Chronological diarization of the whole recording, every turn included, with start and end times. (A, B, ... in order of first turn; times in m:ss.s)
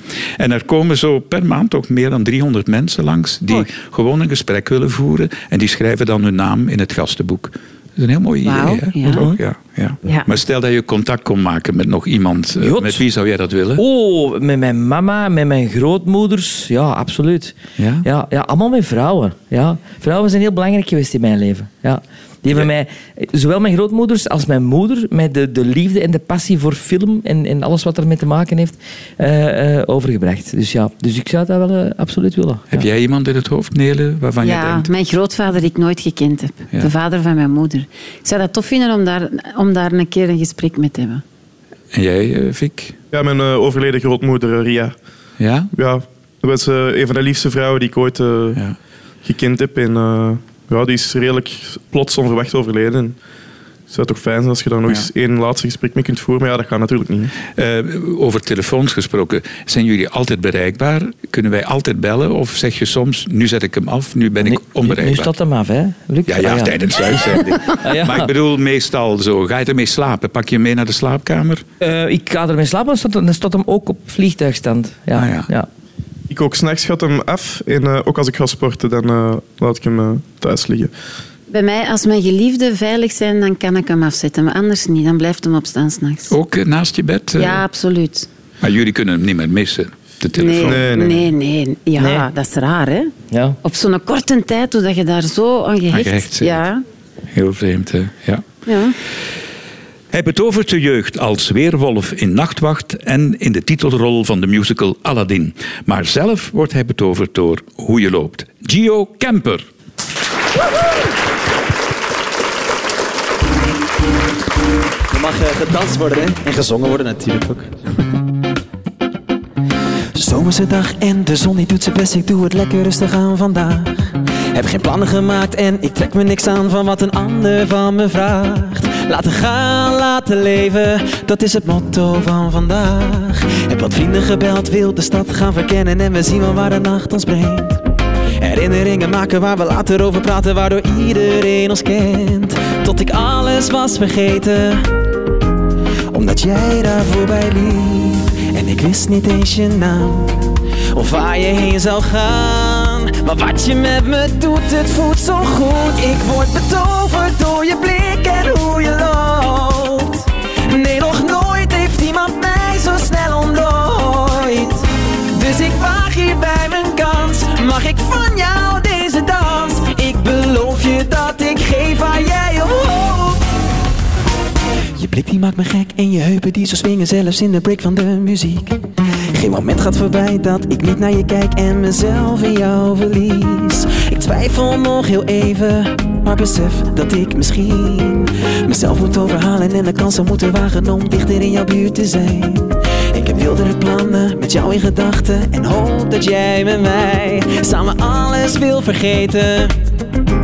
0:00.4-0:13.8 A
0:08.4-0:09.3 B
0:12.6-0:13.0 C
0:13.8-0:32.9 C
0:17.8-0:18.1 A
0:32.7-0:34.9 A
0:34.4-0:41.2 B
0:41.9-0:43.0 A
0:43.1-0:45.0 D
0:45.4-0:45.7 A
0:45.7-0:48.6 D
0:49.2-0:53.2 D
0:53.9-0:57.3 D
0:57.6-1:05.3 A
1:04.4-1:08.3 C
1:06.3-1:11.6 A
1:11.8-1:15.7 C
1:15.2-1:15.5 A
1:16.3-1:20.9 D
1:21.5-1:26.4 B
1:26.3-1:27.6 A
1:27.4-1:28.3 B
1:28.6-1:30.8 A
1:30.4-1:33.1 B
1:30.6-1:31.3 D
1:32.0-1:32.3 C
1:33.3-1:33.6 C
1:33.6-1:36.8 B
1:35.9-1:36.6 A
1:37.3-1:38.4 A
1:38.7-1:39.0 B
1:40.1-1:49.6 A
1:55.1-1:57.7 E
2:00.2-2:17.8 E
2:18.4-2:25.0 E
2:26.1-2:53.5 E
2:55.0-3:19.8 E